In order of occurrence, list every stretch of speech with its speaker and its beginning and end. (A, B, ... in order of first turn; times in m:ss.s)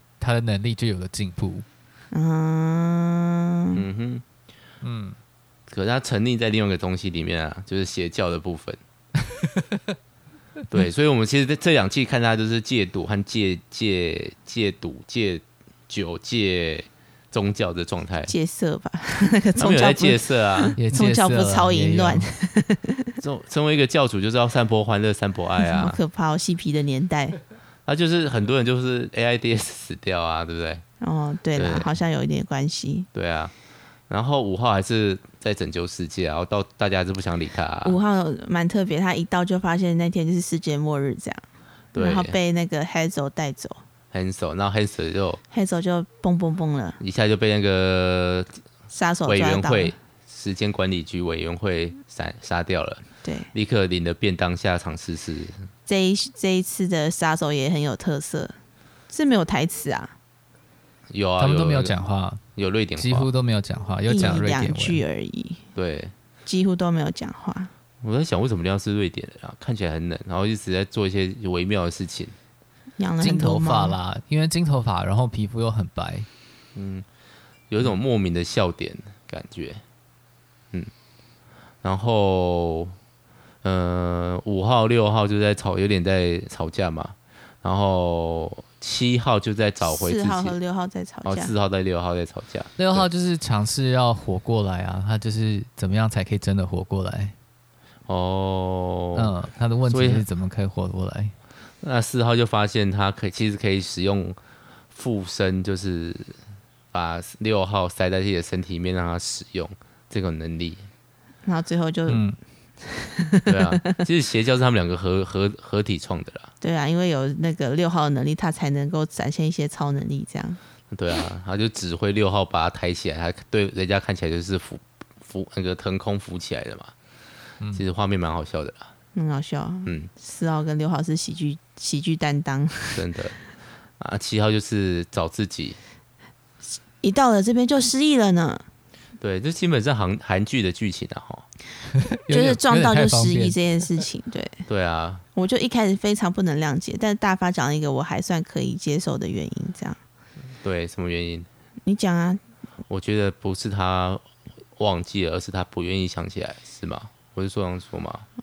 0:00.2-0:01.6 A
0:02.1-0:03.8 B
0:03.7-0:04.2 C
0:04.8-0:05.2 A
0:05.7-0:08.8 C
0:09.4-0:09.8 A
0:10.7-0:18.3 C
0:18.3-0:23.1 B
0:19.6-0:20.8 C
0:20.8-0:22.3 A
0:23.2-0:26.0 C
0:25.6-0:27.4 B
0:27.8-0:30.8 C
0:31.0-0:33.1 B
0:31.6-0:31.9 C
0:33.1-0:33.5 C
0:34.1-0:38.0 C
0:37.8-0:43.8 B
0:41.9-0:42.4 C
0:44.1-0:45.4 C
0:45.5-0:47.0 B
0:47.0-0:48.5 C
0:48.9-0:49.9 B
0:49.3-0:55.6 C
0:53.2-0:53.5 B
0:55.9-0:58.6 B
0:59.1-1:00.1 B
1:01.1-1:02.0 C
1:01.4-1:02.4 A
1:02.6-1:03.3 C
1:03.0-1:05.0 A
1:04.1-1:05.6 B
1:05.8-1:06.1 C
1:06.4-1:07.7 B
1:08.0-1:12.3 C
1:13.0-1:14.0 B
1:13.2-1:16.3 A
1:16.7-1:17.0 C
1:17.7-1:19.8 C
1:21.8-1:22.9 C
1:23.6-1:30.6 C
1:29.8-1:31.5 B
1:31.2-1:33.1 C
1:32.8-1:37.3 A
1:38.1-1:39.3 C
1:39.2-1:41.3 A
1:39.9-1:40.2 C
1:41.8-1:44.4 C
1:44.9-1:46.4 C
1:46.9-1:50.8 C
1:51.4-1:52.2 B
1:52.1-1:52.4 A
1:52.8-1:53.9 B
1:53.4-1:56.5 C
1:56.6-2:00.6 B
2:00.9-2:06.9 C
2:07.7-2:08.9 C
2:09.1-2:13.0 B
2:09.8-2:10.1 C
2:12.9-2:13.4 C
2:14.0-2:15.8 C
2:17.0-2:18.6 B
2:19.2-2:21.4 C
2:22.1-2:23.6 A
2:22.3-2:24.6 B
2:24.7-2:25.2 C
2:25.3-2:30.0 B
2:30.6-2:31.5 C
2:31.8-2:32.4 B
2:32.9-2:34.2 C
2:34.8-2:38.2 C